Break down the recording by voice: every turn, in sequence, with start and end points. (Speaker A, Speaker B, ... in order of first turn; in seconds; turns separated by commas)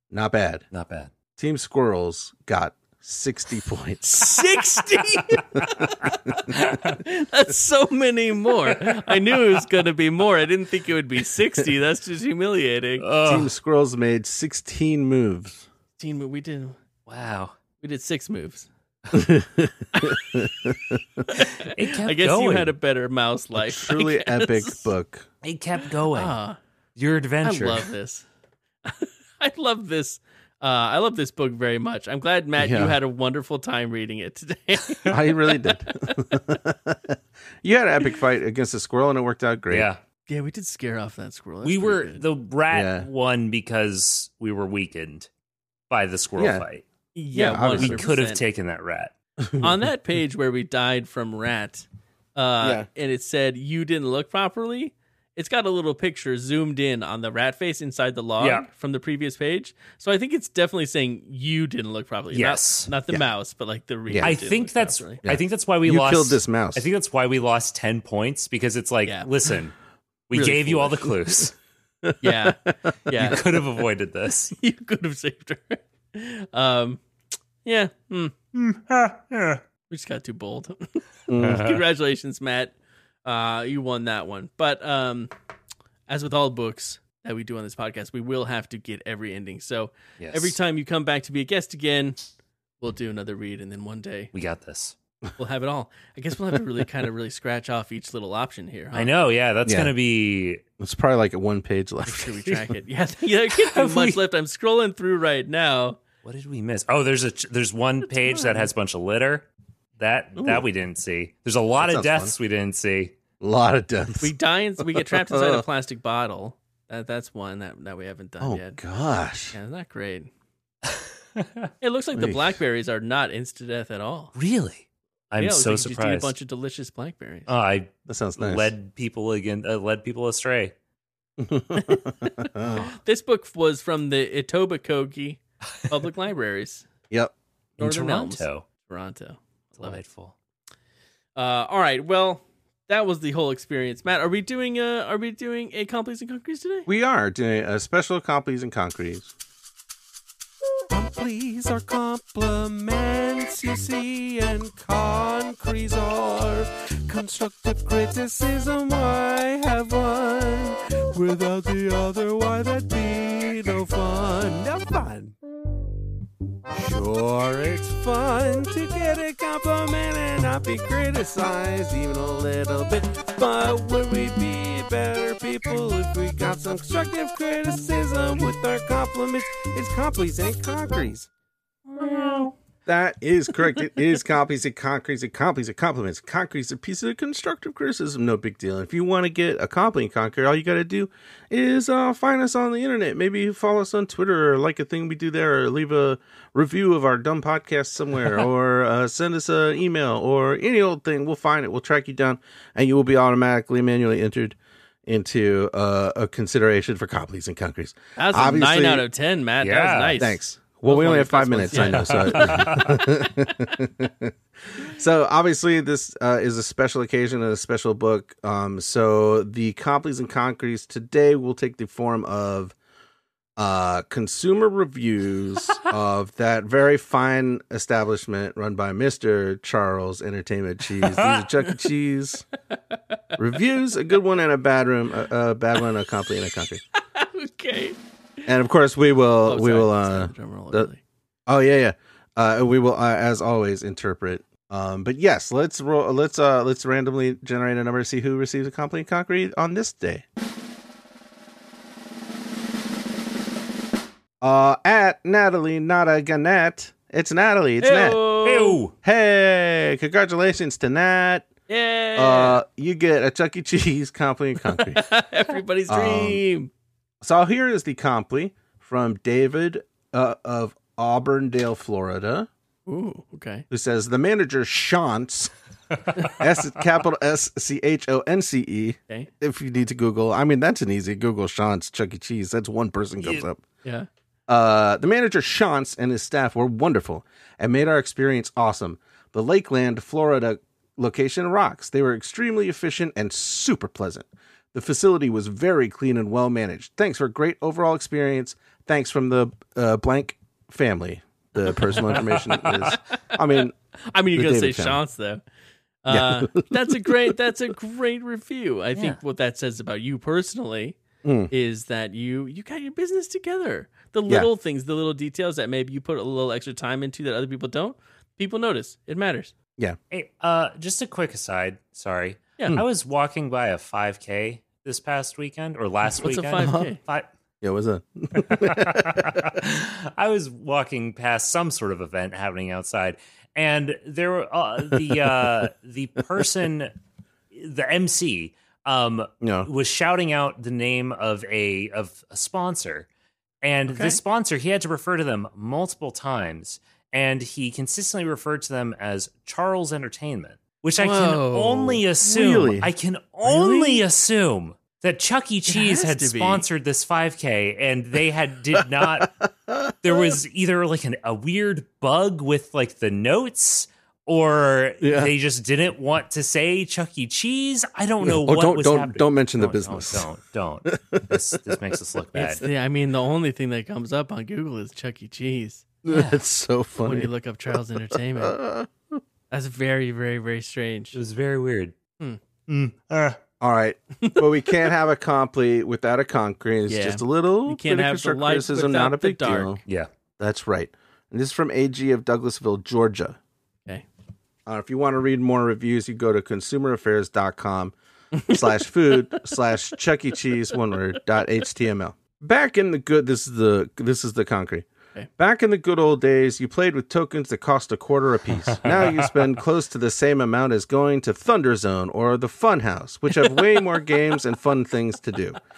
Speaker A: 0.1-0.6, Speaker B: 0.7-1.1, Speaker A: 1.4-4.3, Speaker C: 4.1-13.1, Speaker A: 5.5-6.5, Speaker B: 6.5-7.0, Speaker B: 13.0-13.5, Speaker A: 13.2-15.7, Speaker C: 16.0-16.8, Speaker B: 17.1-17.5, Speaker C: 17.8-18.7, Speaker A: 19.1-21.0, Speaker C: 19.9-20.4, Speaker C: 21.2-24.9, Speaker B: 21.3-22.7, Speaker A: 23.6-25.3, Speaker B: 25.4-26.4, Speaker C: 26.1-26.6, Speaker B: 26.9-27.9, Speaker C: 27.4-28.2, Speaker C: 28.8-35.4, Speaker A: 32.6-33.0, Speaker A: 35.1-39.9, Speaker B: 39.7-40.0, Speaker C: 40.3-42.2, Speaker B: 41.6-45.3, Speaker A: 42.7-43.0, Speaker B: 45.9-46.8, Speaker A: 46.4-46.6, Speaker C: 47.1-48.4, Speaker A: 47.3-48.0, Speaker B: 47.7-49.1, Speaker A: 49.4-49.7, Speaker C: 49.6-65.2, Speaker A: 52.6-52.9, Speaker B: 58.4-58.7, Speaker B: 62.3-62.9, Speaker B: 64.2-69.7, Speaker A: 65.2-66.8, Speaker B: 70.3-71.5, Speaker C: 70.3-71.0, Speaker A: 72.0-72.5, Speaker C: 72.2-73.4, Speaker A: 73.1-73.6, Speaker B: 73.2-74.5, Speaker C: 74.5-77.0, Speaker C: 77.6-78.3, Speaker B: 78.5-79.6, Speaker C: 79.9-82.7, Speaker A: 81.3-81.6, Speaker B: 81.3-81.8, Speaker C: 83.2-85.3, Speaker C: 86.1-92.2, Speaker B: 90.2-90.5, Speaker C: 92.8-94.3, Speaker B: 94.3-95.0, Speaker C: 95.4-99.1, Speaker B: 98.9-100.6, Speaker A: 99.7-99.9, Speaker A: 100.8-102.5, Speaker C: 102.0-106.0, Speaker B: 103.5-104.2, Speaker B: 106.2-109.5, Speaker C: 108.2-108.7, Speaker B: 110.0-113.1, Speaker A: 110.4-110.7, Speaker A: 111.8-112.3, Speaker A: 113.4-115.7, Speaker C: 114.2-118.8, Speaker A: 118.4-119.5, Speaker C: 119.5-120.3, Speaker B: 121.3-121.7, Speaker C: 121.8-124.3, Speaker A: 122.1-122.6, Speaker B: 124.3-126.3, Speaker C: 125.4-127.5, Speaker B: 127.5-130.7, Speaker A: 128.1-128.7, Speaker A: 131.4-132.8, Speaker C: 131.8-136.9, Speaker B: 137.8-138.6, Speaker C: 137.8-140.0, Speaker B: 139.7-140.3, Speaker C: 141.3-146.9, Speaker A: 146.9-149.3, Speaker A: 150.9-165.3, Speaker A: 166.7-181.3, Speaker C: 181.9-182.5, Speaker B: 182.0-182.5, Speaker A: 182.8-209.1, Speaker C: 208.2-212.8, Speaker B: 209.6-210.3, Speaker A: 210.2-222.7, Speaker B: 211.7-213.1, Speaker A: 223.6-232.5, Speaker B: 231.0-231.5, Speaker A: 233.3-236.8, Speaker C: 237.1-238.0, Speaker A: 238.5-240.9, Speaker C: 239.4-241.0, Speaker A: 241.5-250.2, Speaker A: 254.4-258.2, Speaker C: 257.8-258.8, Speaker B: 258.4-258.9, Speaker A: 259.0-261.5, Speaker C: 261.7-262.6, Speaker A: 262.1-265.0, Speaker C: 264.7-266.7, Speaker A: 265.9-266.4, Speaker A: 267.2-272.5, Speaker C: 272.9-273.6, Speaker A: 273.7-275.5, Speaker A: 276.2-283.6, Speaker A: 284.5-303.7, Speaker B: 301.8-303.0, Speaker C: 302.9-305.4, Speaker A: 304.3-305.0, Speaker C: 306.0-311.0, Speaker A: 306.1-307.4, Speaker A: 311.2-311.5, Speaker C: 311.5-319.5, Speaker B: 320.1-327.3, Speaker C: 326.2-327.0, Speaker A: 326.6-326.9, Speaker A: 327.6-329.4, Speaker B: 328.4-336.9, Speaker B: 337.5-343.1, Speaker A: 339.4-339.7, Speaker B: 343.6-359.3, Speaker C: 343.9-344.2, Speaker C: 351.0-352.0, Speaker A: 352.2-352.9, Speaker C: 353.5-354.0, Speaker C: 355.6-356.6, Speaker A: 358.8-360.4, Speaker B: 360.0-372.6, Speaker A: 365.0-365.3, Speaker A: 368.2-370.2, Speaker A: 370.9-371.6, Speaker C: 372.3-375.9, Speaker A: 376.0-377.3, Speaker B: 376.1-376.4, Speaker C: 377.0-378.6, Speaker A: 378.1-379.2, Speaker C: 379.5-381.2, Speaker B: 381.1-381.9, Speaker B: 382.7-383.4, Speaker A: 383.6-389.8, Speaker C: 384.2-384.9, Speaker C: 386.9-389.8, Speaker A: 390.4-393.4, Speaker A: 394.6-397.9, Speaker C: 398.3-398.6, Speaker A: 398.4-404.9, Speaker A: 405.4-415.6, Speaker B: 408.8-409.3